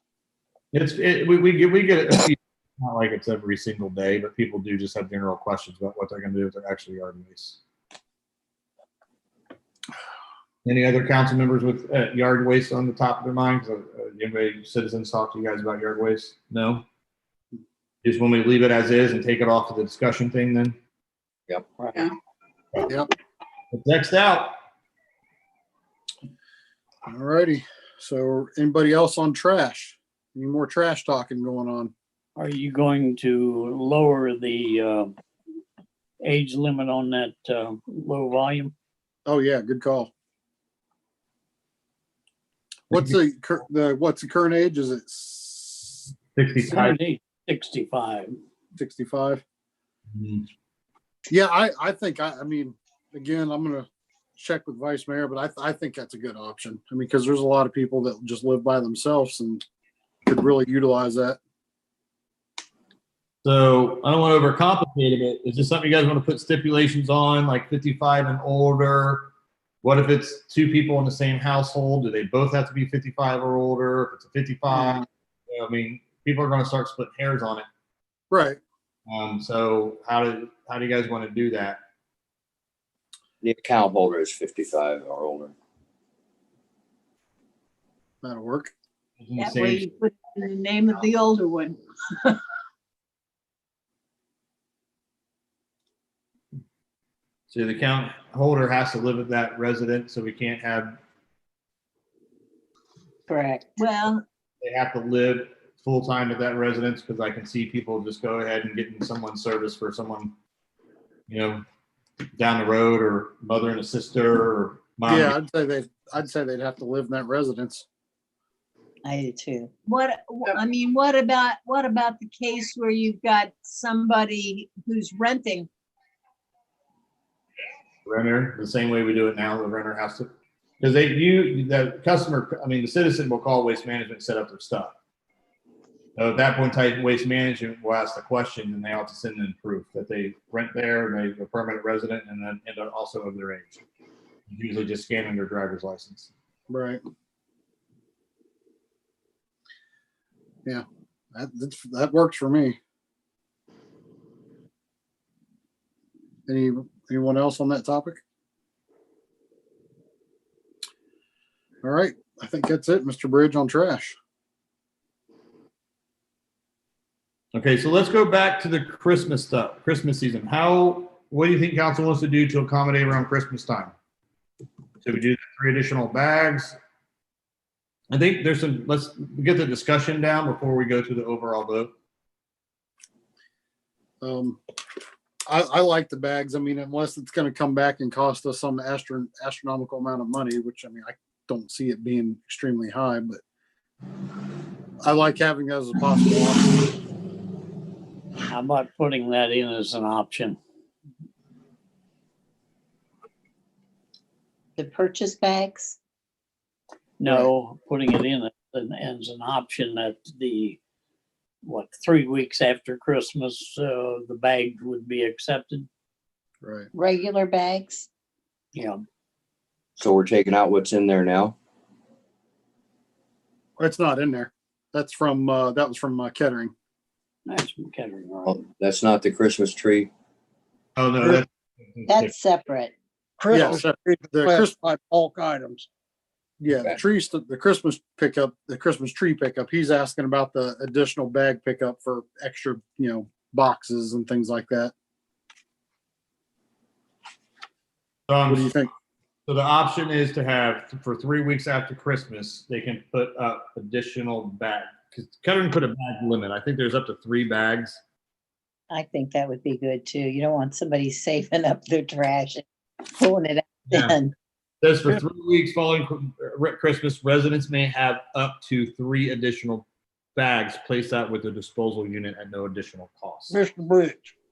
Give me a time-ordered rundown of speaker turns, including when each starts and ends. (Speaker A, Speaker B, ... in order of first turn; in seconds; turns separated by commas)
Speaker A: 0.7-7.6, Speaker A: 10.7-16.9, Speaker A: 18.0-20.8, Speaker B: 21.8-22.0, Speaker C: 22.8-23.1, Speaker A: 23.7-24.6, Speaker C: 27.1-31.9, Speaker B: 32.4-35.1, Speaker B: 36.2-38.7, Speaker C: 39.3-40.1, Speaker C: 42.9-46.1, Speaker A: 46.4-46.9, Speaker B: 46.7-48.4, Speaker C: 48.8-49.4, Speaker A: 50.2-50.5, Speaker C: 51.3-59.6, Speaker C: 60.3-61.4, Speaker A: 63.4-77.7, Speaker C: 78.3-78.6, Speaker A: 79.1-81.8, Speaker D: 83.4-85.5, Speaker C: 88.2-88.7, Speaker A: 89.2-89.8, Speaker E: 89.4-92.4, Speaker A: 97.5-101.0, Speaker F: 103.3-103.7, Speaker E: 103.8-104.2, Speaker A: 104.6-110.3, Speaker A: 111.3-111.6, Speaker A: 112.3-115.3, Speaker C: 115.0-117.9, Speaker F: 119.0-119.7, Speaker E: 119.9-125.7, Speaker A: 128.1-130.3, Speaker A: 130.8-134.9, Speaker A: 136.2-143.8, Speaker A: 144.5-146.3, Speaker C: 146.7-147.0, Speaker C: 150.7-152.8, Speaker C: 156.5-158.2, Speaker C: 161.8-164.2, Speaker A: 167.5-173.9, Speaker A: 175.0-176.8, Speaker A: 178.1-181.9, Speaker C: 184.2-184.6, Speaker C: 185.5-193.4, Speaker C: 195.0-196.9, Speaker B: 198.5-200.6, Speaker F: 204.8-206.0, Speaker B: 207.2-210.8, Speaker B: 211.6-215.9, Speaker C: 216.6-216.9, Speaker F: 216.9-218.1, Speaker B: 218.8-219.0, Speaker D: 220.0-221.6, Speaker C: 223.8-226.7, Speaker B: 227.5-228.6, Speaker D: 228.5-230.1, Speaker A: 231.0-232.3, Speaker F: 232.1-232.9, Speaker G: 233.4-235.9, Speaker C: 233.5-234.7, Speaker C: 236.6-244.9, Speaker D: 236.7-237.0, Speaker A: 248.3-248.7, Speaker C: 248.5-248.9, Speaker A: 249.5-258.0, Speaker F: 258.9-264.4, Speaker A: 264.8-273.5, Speaker G: 273.5-274.4